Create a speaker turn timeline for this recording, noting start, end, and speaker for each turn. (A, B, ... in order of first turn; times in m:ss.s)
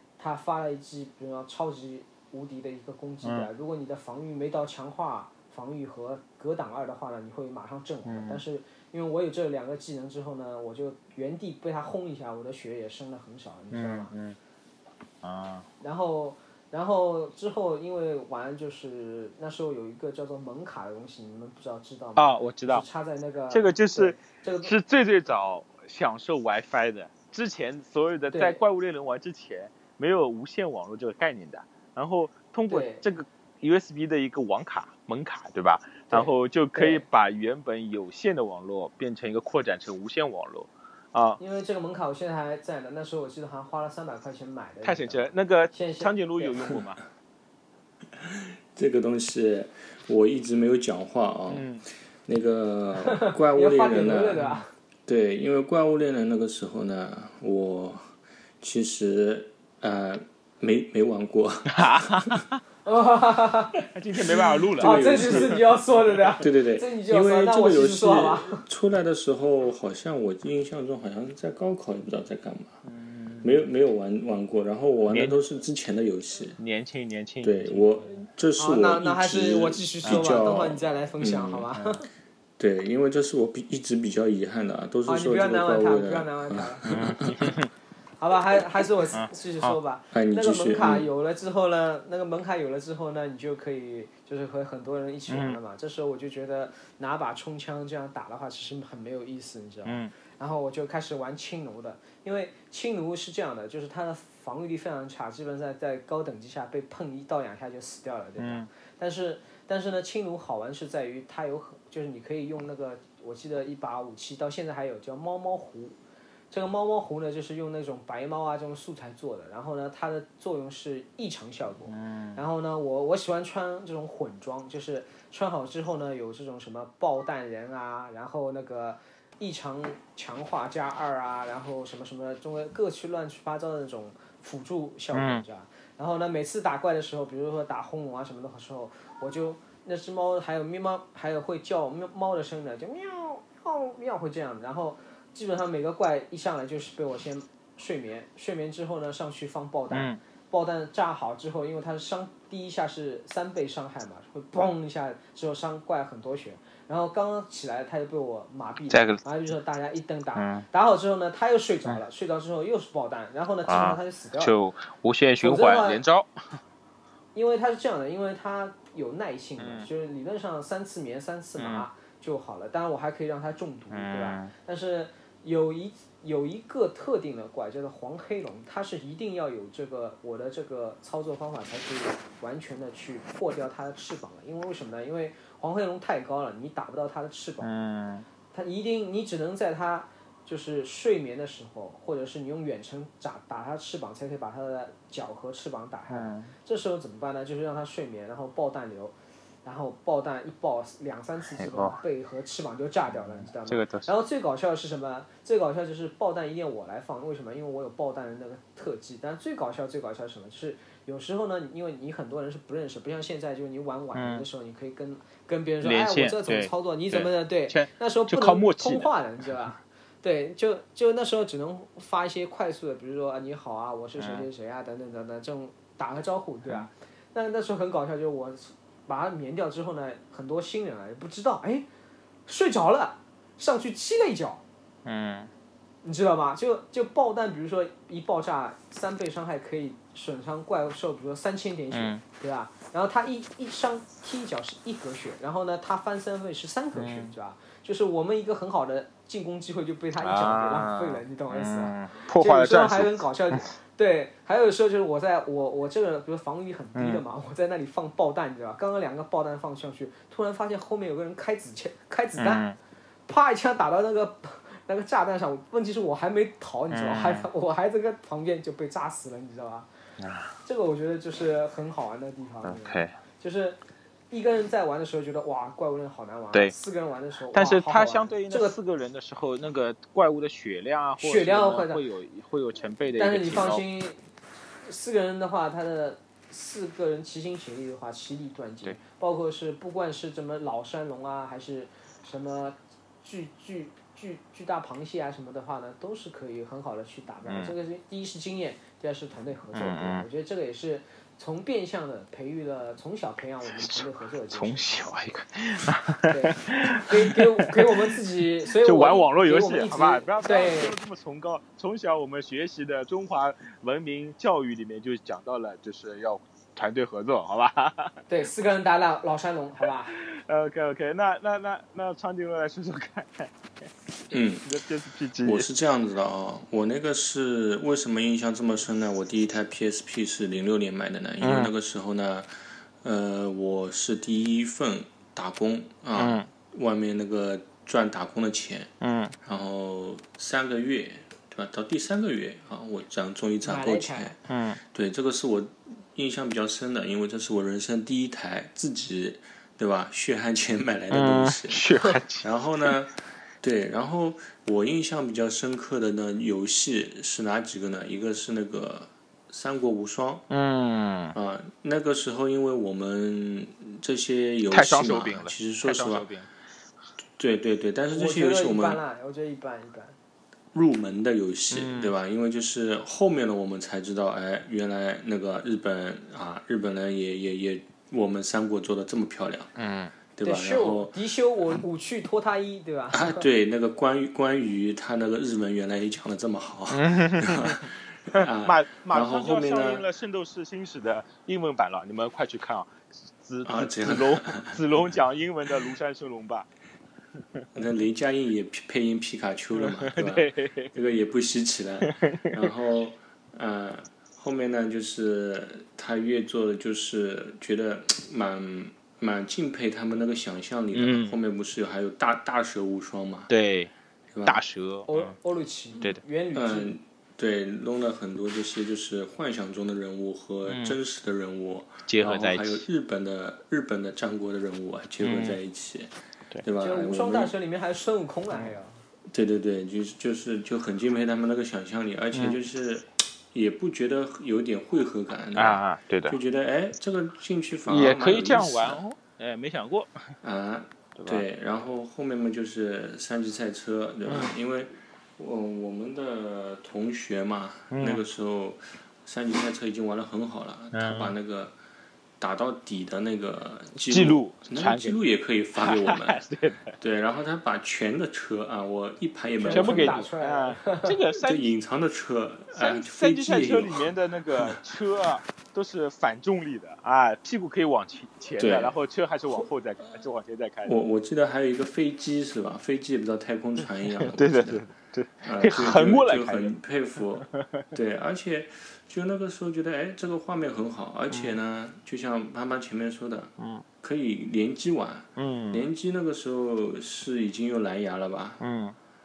0:00.2-0:14.1 A
0:08.1-0:08.4 B
0:13.7-0:14.4 B
0:15.2-0:15.7 B
0:15.8-0:24.7 A
0:22.2-0:22.8 B
0:23.5-0:41.4 B
0:28.3-0:28.6 A
0:32.7-0:33.0 A
0:36.1-0:37.0 A
0:41.4-0:46.7 A
0:44.8-0:47.0 B
0:48.2-0:51.7 C
0:51.5-0:51.8 B
0:52.3-0:54.4 C
0:53.0-0:54.7 A
0:55.1-0:58.1 C
0:58.6-1:02.3 C
1:01.7-1:02.6 B
1:02.9-1:03.8 A
1:03.9-1:05.6 B
1:04.4-1:05.6 C
1:04.8-1:08.6 A
1:06.4-1:12.8 C
1:12.8-1:13.6 B
1:13.4-1:16.6 C
1:15.1-1:15.4 B
1:16.6-1:17.9 B
1:17.4-1:21.7 C
1:18.6-1:22.1 A
1:22.6-1:27.5 C
1:25.1-1:26.9 A
1:27.2-1:27.7 B
1:28.2-1:56.0 A
1:29.1-1:29.8 B
1:30.1-1:31.1 C
1:35.3-1:35.6 B
1:39.8-1:40.1 B
1:48.4-1:48.7 B
1:56.5-2:44.6 A
2:01.9-2:02.4 B
2:15.1-2:15.4 B
2:29.9-2:30.2 B
2:38.9-2:39.2 B
2:40.4-2:40.7 B
2:43.7-2:46.3 B
2:45.4-2:46.0 A
2:47.4-3:07.7 A
2:49.6-2:49.9 B
2:51.6-2:51.9 B
2:53.9-2:54.5 B
3:07.6-3:08.3 B
3:08.5-3:19.1 A
3:16.1-3:16.5 B
3:19.6-3:51.9 A
3:21.5-3:22.0 B
3:23.1-3:24.1 B
3:34.1-3:34.5 B
3:35.8-3:39.5 B
3:44.2-3:44.5 B
3:52.5-3:54.6 A
3:55.0-3:55.5 B
3:56.0-4:22.6 A
4:01.9-4:02.2 B
4:07.0-4:07.3 B
4:10.2-4:13.7 B
4:17.0-4:17.2 B
4:22.4-4:22.8 B
4:23.3-4:29.9 A
4:26.9-4:27.5 B
4:30.2-4:30.5 B
4:30.6-4:33.8 A
4:32.6-4:33.1 B
4:34.3-4:38.8 A
4:37.5-4:43.8 B
4:41.2-4:42.0 A
4:43.2-4:44.2 A
4:44.8-5:05.1 A
4:57.5-4:57.7 B
4:59.7-5:00.3 B
5:03.7-5:18.2 B
5:06.3-5:11.0 A
5:18.3-5:20.1 A
5:19.8-5:23.5 B
5:24.3-5:24.7 C
5:24.6-5:25.7 B
5:25.4-5:32.5 C
5:31.4-5:31.7 B
5:33.0-5:38.9 C
5:36.2-5:36.5 B
5:39.0-5:39.3 B
5:39.4-5:44.4 C
5:43.6-5:44.4 A
5:44.5-5:44.8 B
5:44.9-5:51.9 C
5:51.1-5:52.9 B
5:52.4-6:00.5 C
6:00.5-6:01.4 B
6:01.3-6:06.3 C
6:04.7-6:06.5 B
6:07.4-6:09.0 C
6:08.1-6:10.2 A
6:10.7-6:19.7 C
6:11.7-6:12.1 B
6:19.8-6:20.1 B
6:20.4-6:21.2 C
6:20.4-6:23.5 A
6:23.1-6:30.0 C
6:26.9-6:36.7 B
6:33.6-6:34.8 C
6:37.7-6:53.5 C
6:39.8-6:40.9 B
6:42.0-6:42.7 B
6:51.0-6:51.4 B
6:53.5-6:53.9 B
6:54.3-6:54.6 C
6:54.4-6:55.3 B
6:55.1-6:57.0 A
6:56.5-7:06.1 C
7:00.7-7:01.0 B
7:02.1-7:02.8 B
7:05.2-7:05.6 B
7:06.6-7:07.5 C
7:06.8-7:09.0 A
7:09.3-7:19.0 C
7:12.3-7:12.6 B
7:15.6-7:16.4 B
7:17.9-7:20.4 B
7:20.4-7:31.8 C
7:21.2-7:21.4 B
7:24.3-7:24.5 B
7:27.9-7:28.2 B
7:30.9-7:31.3 B
7:32.4-7:36.4 C
7:34.0-7:35.2 B
7:35.8-7:37.0 B
7:37.0-7:40.3 C
7:39.6-7:41.2 A
7:39.7-7:41.7 B
7:41.4-7:44.8 C
7:42.7-7:51.0 B
7:48.6-7:49.0 C
7:50.9-7:54.8 C
7:54.1-7:56.8 B
7:55.4-8:08.6 C
7:57.4-7:57.9 B
8:01.3-8:01.6 B
8:03.6-8:03.8 B
8:05.4-8:05.9 B
8:08.6-8:09.0 B